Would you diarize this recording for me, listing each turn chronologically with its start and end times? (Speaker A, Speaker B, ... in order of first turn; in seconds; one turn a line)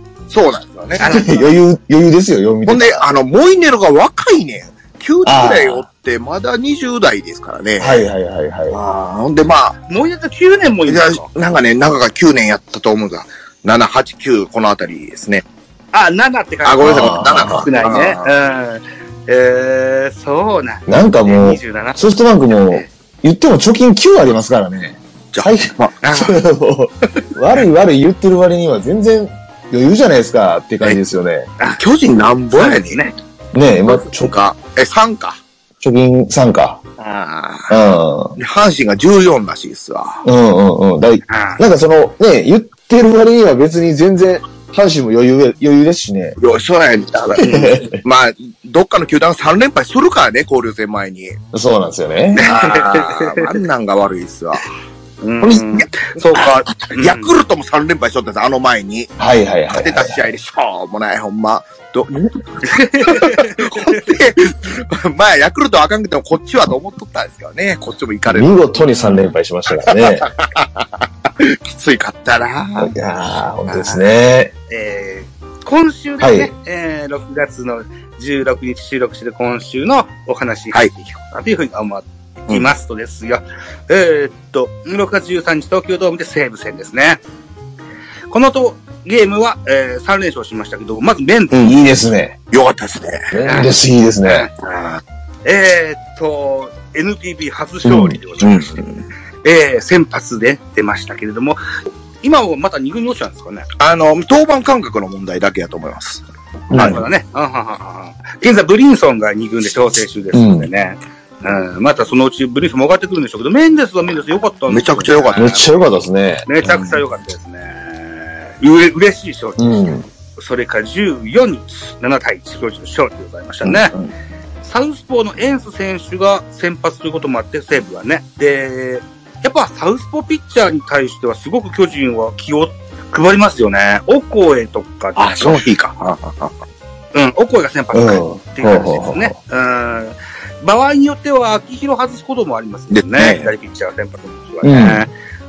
Speaker A: 0.3-1.1
Speaker B: 1.0-1.5
Speaker C: 1.0-3.0
Speaker A: 2.6-8.0
Speaker C: 5.2-5.8
Speaker C: 7.8-8.8
Speaker A: 8.7-9.8
Speaker B: 9.9-11.2
Speaker A: 10.8-15.4
Speaker B: 15.9-22.9
Speaker A: 16.6-18.3
Speaker C: 16.8-17.7
Speaker C: 20.9-31.5
Speaker A: 25.3-26.3
Speaker B: 26.0-26.3
Speaker A: 31.8-33.0
Speaker B: 32.5-33.1
Speaker C: 33.5-34.3
Speaker A: 33.8-35.4
Speaker C: 35.8-36.8
Speaker A: 37.0-37.8
Speaker C: 37.7-38.4
Speaker A: 38.4-40.2
Speaker C: 40.2-46.4
Speaker B: 41.3-41.6
Speaker A: 46.4-51.4
Speaker C: 47.4-48.0
Speaker C: 51.5-52.5
Speaker A: 52.4-54.7
Speaker B: 52.4-53.5
Speaker B: 55.2-57.3
Speaker A: 55.4-59.2
Speaker C: 59.2-60.2
Speaker A: 59.7-72.9
Speaker B: 62.6-64.1
Speaker C: 68.3-70.3
Speaker C: 72.8-74.5
Speaker A: 73.7-74.0
Speaker B: 74.7-87.2
Speaker C: 76.2-76.5
Speaker B: 88.3-91.6
Speaker C: 91.6-92.3
Speaker A: 92.5-93.3
Speaker C: 93.3-94.5
Speaker B: 93.4-93.7
Speaker B: 94.2-94.5
Speaker B: 95.4-98.8
Speaker C: 97.9-98.1
Speaker A: 98.4-99.0
Speaker B: 99.4-101.6
Speaker B: 102.2-103.7
Speaker A: 103.8-107.0
Speaker C: 106.7-107.0
Speaker B: 106.7-115.7
Speaker C: 110.3-110.7
Speaker A: 114.7-115.6
Speaker C: 115.3-116.5
Speaker B: 116.5-123.9
Speaker A: 116.6-117.0
Speaker C: 119.6-120.0
Speaker A: 123.6-124.1
Speaker B: 124.6-135.6
Speaker A: 135.2-136.6
Speaker B: 137.1-145.1
Speaker C: 137.9-139.3
Speaker A: 142.9-143.5
Speaker C: 144.6-145.0